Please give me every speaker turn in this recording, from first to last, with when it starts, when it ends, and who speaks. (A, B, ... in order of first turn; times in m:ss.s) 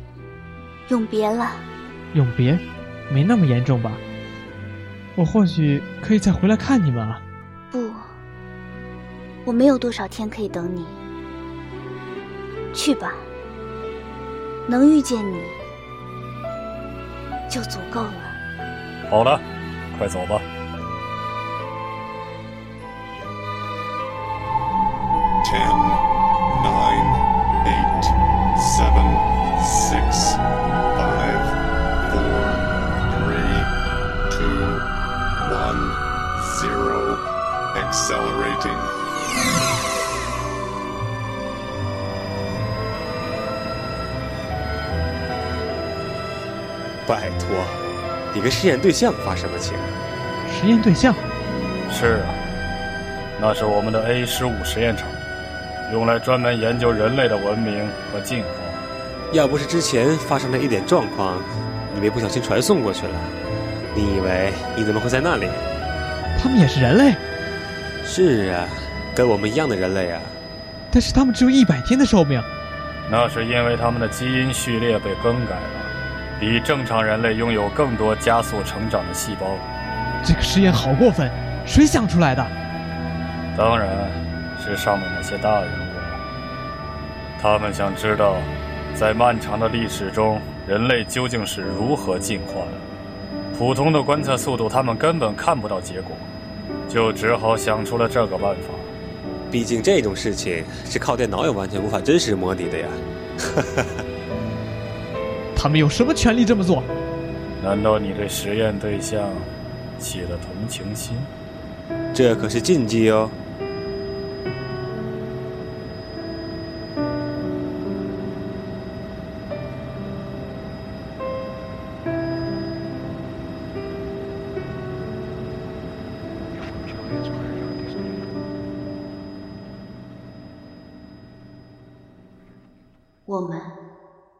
0:00.9-0:01.7 A
0:02.1-0:04.0 B
0:05.2-0:07.2 B
0:07.7-0:08.0 A
0:09.4-0:11.0 A
0:12.7-0:13.3 A
0:14.7-0:15.6 A
0:17.5-0:18.4 A
0:19.1-0:20.4 C
0:25.5-0:25.9 D
0:26.6-0:27.1 D
0:27.7-0:28.1 D
0:28.6-0:30.3 D
0:31.0-0:31.5 D
0:32.1-0:32.6 D
0:33.2-0:33.7 D
0:34.4-0:34.8 D
0:35.5-0:35.9 D
0:36.4-0:37.2 D
0:37.8-0:38.9 D
0:47.0-0:50.0 E
0:50.5-0:51.2 B
0:51.9-0:52.4 C
0:53.4-0:55.2 C
0:55.9-0:58.8 C
0:59.3-1:03.3 E
1:03.9-1:05.7 E
1:06.4-1:07.2 B
1:08.0-1:10.4 E
1:10.9-1:12.5 B
1:13.1-1:19.6 C
1:20.2-1:22.5 B
1:23.6-1:26.2 C
1:27.4-1:32.8 C
1:33.5-1:36.3 C
1:36.9-1:38.9 C
1:39.5-1:44.0 E
1:45.6-1:46.8 B
1:47.6-1:51.3 C
1:52.1-1:53.4 E
2:13.3-2:13.7 A